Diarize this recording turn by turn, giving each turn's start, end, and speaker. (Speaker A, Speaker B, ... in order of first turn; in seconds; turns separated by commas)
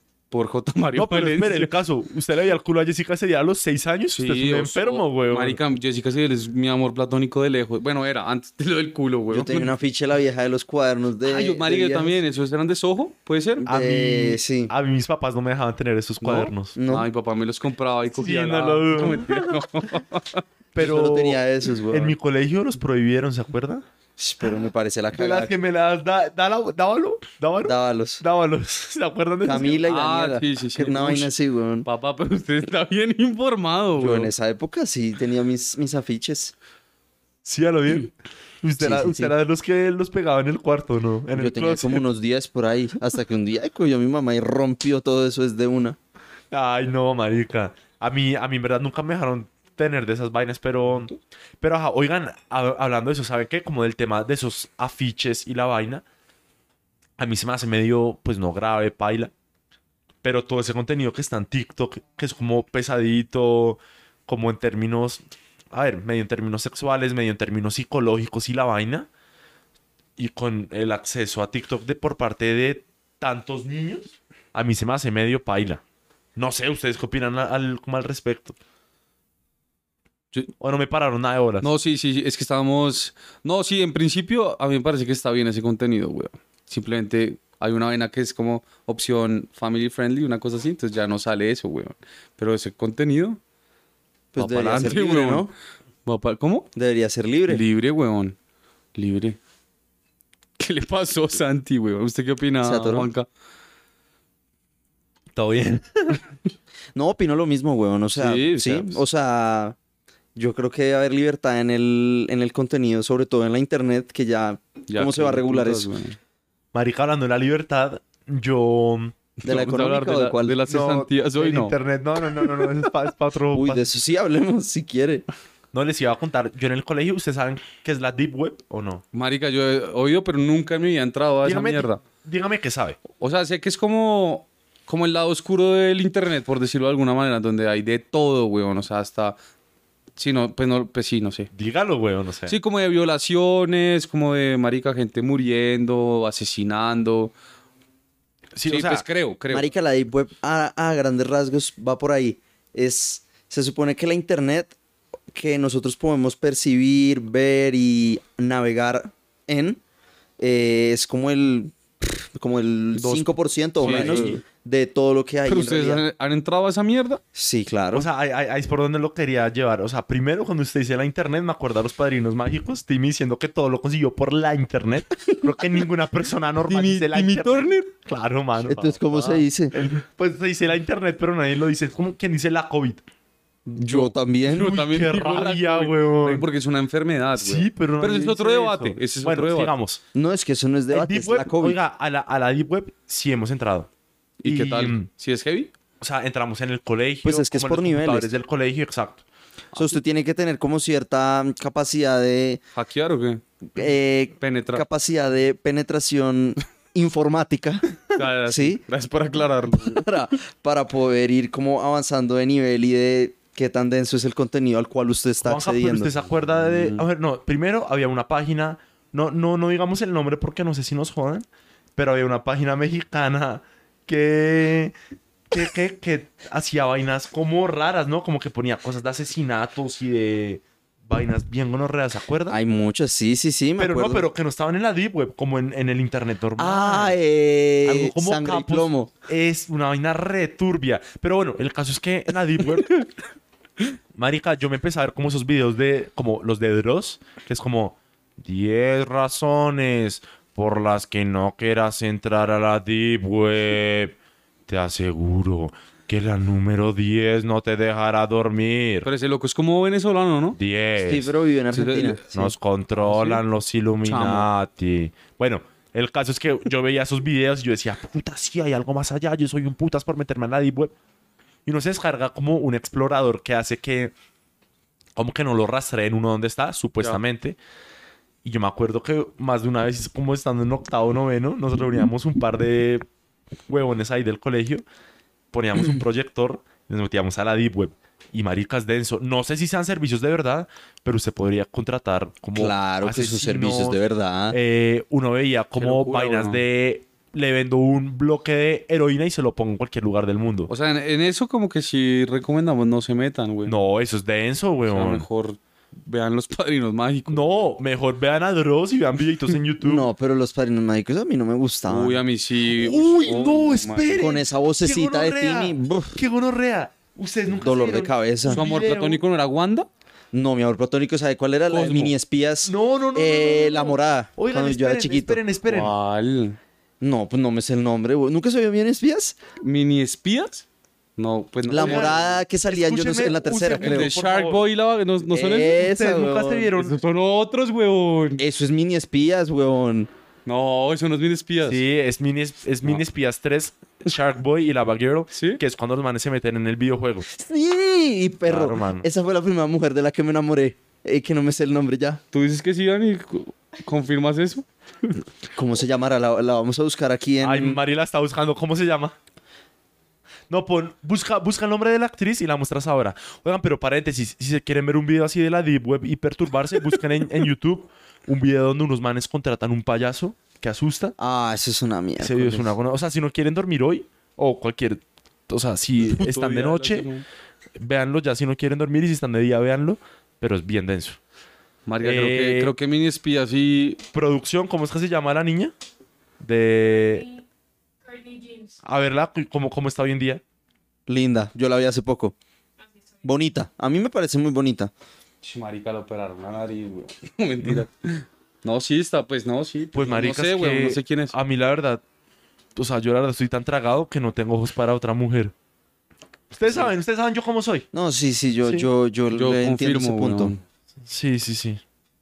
Speaker A: 0.3-1.7, Speaker B: 0.9-5.6, Speaker A: 4.1-9.7, Speaker C: 9.3-12.2, Speaker A: 11.2-13.7, Speaker C: 13.7-14.7, Speaker B: 13.7-16.7, Speaker A: 16.2-20.4, Speaker C: 16.7-17.1, Speaker B: 18.1-19.5, Speaker B: 20.7-23.8, Speaker C: 20.8-22.1, Speaker C: 24.2-25.5, Speaker B: 25.1-29.8, Speaker C: 27.6-28.2, Speaker C: 29.4-31.9, Speaker A: 29.8-31.3, Speaker A: 31.8-34.3, Speaker C: 34.0-36.5, Speaker B: 37.4-38.1, Speaker B: 38.6-42.0, Speaker C: 38.8-39.3, Speaker C: 41.3-46.0, Speaker B: 46.5-56.0, Speaker B: 57.2-59.3, Speaker B: 60.2-69.1, Speaker B: 70.2-75.8, Speaker B: 76.3-78.5, Speaker B: 80.6-81.7, Speaker A: 81.6-93.4, Speaker C: 94.3-95.5, Speaker A: 94.3-95.5, Speaker A: 96.0-96.7, Speaker C: 96.7-97.6, Speaker A: 97.5-98.3, Speaker A: 98.9-99.4, Speaker A: 100.6-103.3, Speaker C: 102.6-103.1, Speaker B: 105.3-106.2, Speaker C: 106.9-109.8, Speaker A: 108.1-109.0, Speaker C: 110.3-115.9, Speaker A: 114.9-116.2, Speaker B: 116.7-119.1, Speaker A: 119.4-121.7, Speaker C: 119.4-120.6, Speaker B: 120.7-123.8, Speaker A: 122.3-122.7, Speaker C: 123.5-125.2, Speaker B: 125.7-129.0, Speaker A: 129.1-132.0, Speaker B: 131.4-133.0, Speaker A: 133.2-139.3, Speaker A: 140.2-141.5, Speaker B: 141.5-142.6, Speaker A: 142.5-147.3, Speaker B: 148.5-149.0, Speaker A: 148.6-149.7, Speaker C: 149.5-154.7, Speaker C: 155.3-159.8, Speaker C: 160.4-166.0, Speaker A: 162.9-164.4, Speaker B: 163.8-164.4, Speaker A: 165.4-167.2, Speaker C: 167.3-168.1, Speaker B: 167.9-179.1, Speaker A: 176.7-177.9, Speaker C: 178.6-179.7, Speaker A: 179.1-179.4, Speaker B: 179.7-183.0, Speaker A: 183.7-189.7, Speaker C: 183.8-184.7, Speaker B: 184.5-186.4, Speaker B: 187.3-190.0, Speaker C: 190.1-191.8, Speaker B: 190.9-193.9, Speaker A: 194.4-195.7, Speaker B: 194.4-195.1, Speaker B: 196.0-199.2, Speaker C: 197.2-198.3, Speaker C: 199.7-202.6, Speaker A: 202.7-203.4, Speaker C: 203.7-208.8, Speaker A: 204.4-204.8, Speaker A: 208.1-210.1, Speaker C: 209.7-216.1, Speaker B: 215.4-224.9, Speaker A: 216.6-217.0, Speaker B: 225.5-232.6, Speaker C: 232.5-234.2, Speaker B: 233.8-237.2, Speaker C: 236.6-239.1, Speaker B: 237.8-243.0, Speaker B: 244.2-254.1, Speaker B: 254.7-259.1, Speaker A: 259.0-260.6, Speaker B: 260.6-261.3, Speaker C: 260.9-262.3, Speaker A: 261.7-263.4, Speaker B: 262.3-270.9, Speaker A: 264.0-264.5, Speaker B: 271.6-274.1, Speaker B: 275.1-277.6, Speaker B: 278.4-283.0, Speaker B: 283.7-284.8, Speaker B: 285.5-300.7, Speaker C: 292.5-294.6, Speaker A: 295.8-296.6, Speaker A: 300.7-303.8, Speaker B: 303.6-305.2, Speaker A: 304.8-307.7, Speaker B: 307.3-310.1, Speaker C: 309.8-312.2, Speaker A: 311.9-314.3, Speaker B: 312.8-319.2, Speaker C: 314.2-316.2, Speaker C: 317.6-318.6, Speaker A: 318.5-319.9, Speaker C: 320.3-325.4, Speaker A: 321.7-322.1, Speaker B: 322.6-325.9, Speaker A: 325.6-326.6, Speaker C: 327.0-329.4, Speaker A: 329.6-330.6, Speaker A: 331.2-332.4, Speaker C: 331.7-334.1, Speaker B: 331.8-334.6, Speaker A: 333.8-336.0, Speaker C: 335.3-336.7, Speaker B: 335.8-337.0, Speaker A: 336.7-338.4, Speaker C: 338.4-340.1, Speaker A: 340.4-341.8, Speaker B: 341.6-347.3, Speaker A: 345.3-345.6, Speaker C: 347.3-352.2, Speaker B: 348.4-349.1, Speaker A: 352.3-355.2, Speaker C: 355.5-357.8, Speaker B: 357.4-359.1, Speaker B: 360.5-371.1, Speaker C: 371.2-372.7, Speaker B: 372.2-377.1, Speaker A: 376.0-377.2, Speaker B: 377.8-381.2, Speaker A: 381.9-384.0, Speaker B: 382.0-382.7, Speaker B: 384.1-385.7, Speaker B: 386.4-387.4, Speaker B: 388.8-390.4, Speaker C: 391.1-392.3, Speaker C: 393.2-394.9, Speaker A: 395.4-401.3, Speaker B: 399.9-402.0, Speaker B: 402.7-405.5, Speaker B: 406.5-407.9, Speaker C: 407.9-410.5, Speaker A: 408.7-410.6, Speaker B: 411.1-411.8